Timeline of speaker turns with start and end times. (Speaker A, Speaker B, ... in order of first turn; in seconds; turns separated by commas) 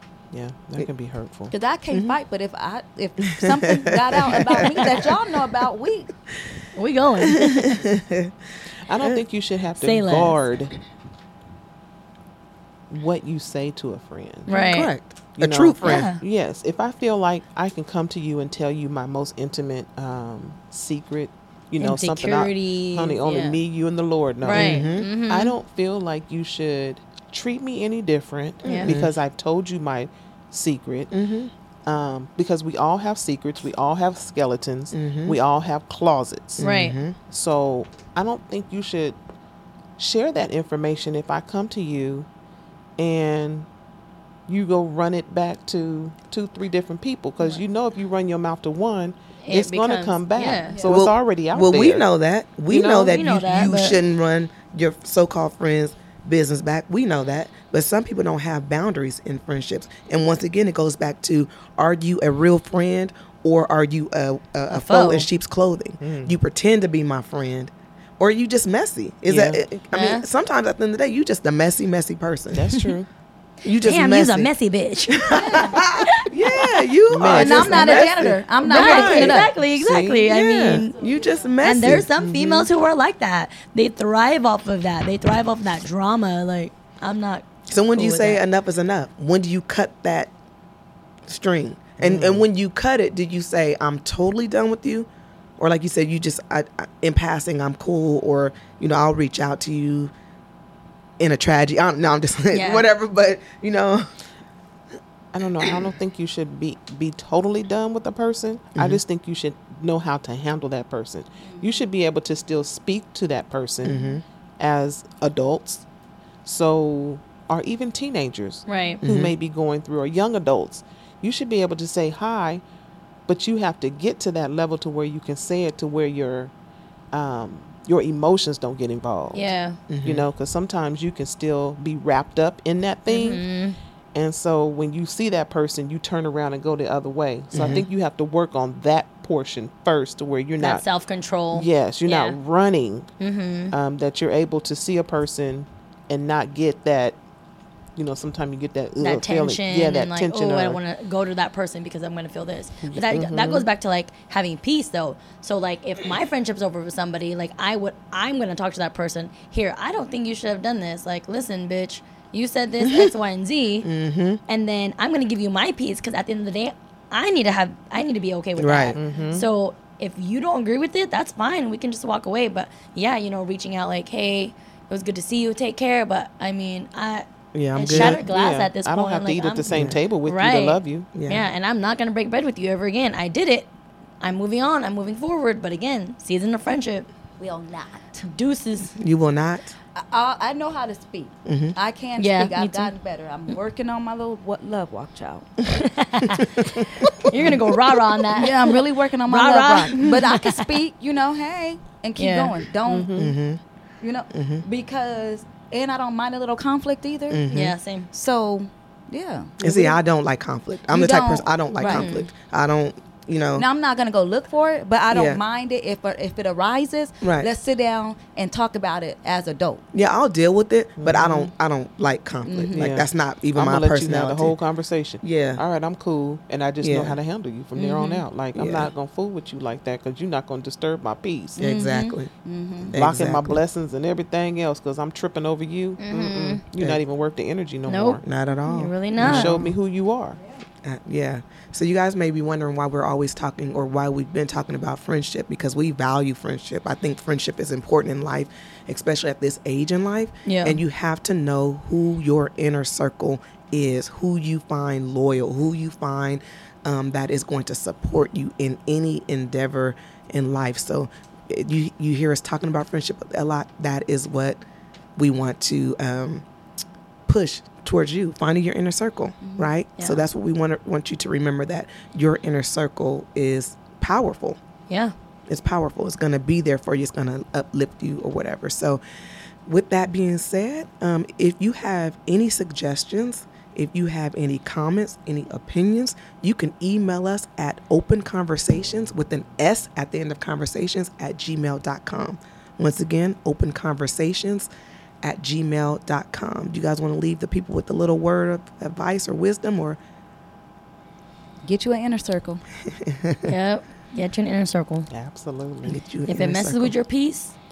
Speaker A: 0.3-1.5, Speaker B: 1.5-6.1, Speaker C: 1.9-2.2, Speaker C: 3.3-5.0, Speaker D: 6.7-7.8, Speaker C: 7.2-8.3, Speaker A: 8.8-10.7, Speaker D: 9.8-10.3, Speaker A: 12.9-14.5, Speaker D: 14.5-14.9, Speaker C: 14.7-16.1, Speaker A: 15.4-31.1, Speaker D: 15.8-16.2, Speaker D: 21.8-23.6, Speaker D: 24.4-25.5, Speaker C: 24.5-25.1, Speaker D: 28.6-28.9, Speaker C: 28.8-29.1, Speaker C: 31.1-31.5, Speaker A: 31.9-36.6, Speaker C: 34.9-35.4, Speaker C: 36.6-37.1, Speaker D: 36.6-37.0, Speaker A: 37.3-39.2, Speaker A: 40.0-42.3, Speaker A: 43.0-43.7, Speaker A: 44.5-52.0, Speaker D: 49.4-50.8, Speaker C: 50.8-72.8, Speaker D: 52.7-54.0, Speaker D: 64.7-65.3, Speaker A: 66.0-66.3, Speaker A: 69.2-69.6, Speaker D: 69.9-70.2, Speaker A: 72.5-73.1, Speaker C: 73.6-74.5, Speaker D: 73.7-76.8, Speaker C: 75.1-82.1, Speaker B: 75.3-75.9, Speaker A: 77.1-78.4, Speaker B: 77.2-79.5, Speaker D: 78.6-81.0, Speaker A: 79.8-80.1, Speaker B: 80.9-81.5, Speaker D: 81.6-88.4, Speaker A: 81.9-82.7, Speaker C: 87.7-90.3, Speaker C: 91.3-95.1, Speaker A: 92.0-92.4, Speaker C: 95.6-100.1, Speaker C: 101.2-104.1, Speaker D: 102.5-102.9, Speaker A: 105.3-114.0, Speaker C: 105.6-105.9, Speaker C: 108.8-109.0, Speaker C: 113.8-114.2, Speaker A: 114.6-115.8, Speaker A: 116.4-122.6, Speaker D: 118.7-119.0, Speaker C: 119.0-119.3, Speaker A: 123.3-126.5, Speaker A: 127.1-129.5, Speaker D: 129.3-129.8, Speaker C: 129.9-130.3, Speaker A: 130.0-133.4, Speaker D: 133.1-133.8, Speaker A: 134.1-140.8, Speaker C: 137.5-137.8, Speaker D: 140.6-142.4, Speaker A: 141.5-143.1, Speaker D: 143.2-143.7, Speaker A: 143.7-147.2, Speaker A: 147.9-150.8, Speaker D: 149.0-163.9, Speaker A: 152.8-153.7, Speaker C: 162.8-163.1, Speaker C: 163.8-164.4, Speaker D: 164.5-183.7, Speaker C: 168.6-169.0, Speaker A: 168.9-169.4, Speaker C: 177.5-178.2, Speaker A: 177.9-181.1, Speaker C: 179.7-180.0, Speaker C: 181.1-181.5, Speaker D: 184.2-187.1, Speaker B: 187.4-188.3, Speaker D: 188.2-188.9, Speaker C: 189.0-189.8, Speaker B: 189.9-195.6, Speaker C: 191.4-191.8, Speaker D: 192.2-192.9, Speaker D: 195.7-200.7, Speaker C: 196.2-197.1, Speaker B: 198.3-203.1, Speaker D: 202.2-202.5, Speaker A: 202.8-203.4, Speaker C: 203.1-203.6, Speaker B: 204.0-207.5, Speaker C: 204.3-204.6, Speaker C: 207.3-207.7, Speaker D: 207.5-208.1, Speaker B: 208.1-209.6, Speaker A: 209.6-209.9, Speaker C: 209.6-213.7, Speaker B: 210.9-212.1, Speaker D: 211.8-212.3, Speaker B: 213.6-219.8, Speaker C: 215.1-215.4, Speaker C: 217.2-217.5, Speaker C: 219.9-224.6, Speaker A: 221.0-221.5, Speaker B: 222.4-222.9, Speaker A: 222.7-231.6, Speaker C: 225.2-225.6, Speaker C: 226.8-227.2, Speaker B: 227.8-228.2, Speaker C: 228.5-228.9, Speaker B: 231.6-232.9, Speaker C: 231.6-233.6, Speaker D: 231.7-232.2, Speaker A: 232.9-238.2, Speaker D: 236.0-236.6, Speaker D: 237.9-239.6, Speaker C: 238.2-239.7, Speaker A: 239.2-240.4, Speaker C: 240.8-264.6, Speaker D: 250.4-250.8, Speaker C: 265.2-266.4, Speaker C: 267.3-274.6, Speaker B: 269.4-269.7, Speaker D: 270.0-270.2, Speaker D: 274.9-275.1, Speaker C: 275.5-279.0, Speaker C: 279.6-294.7, Speaker C: 295.2-300.0, Speaker B: 301.6-302.6, Speaker C: 302.9-303.4, Speaker D: 303.5-305.1, Speaker A: 305.1-306.0, Speaker C: 305.9-306.9, Speaker D: 306.3-307.5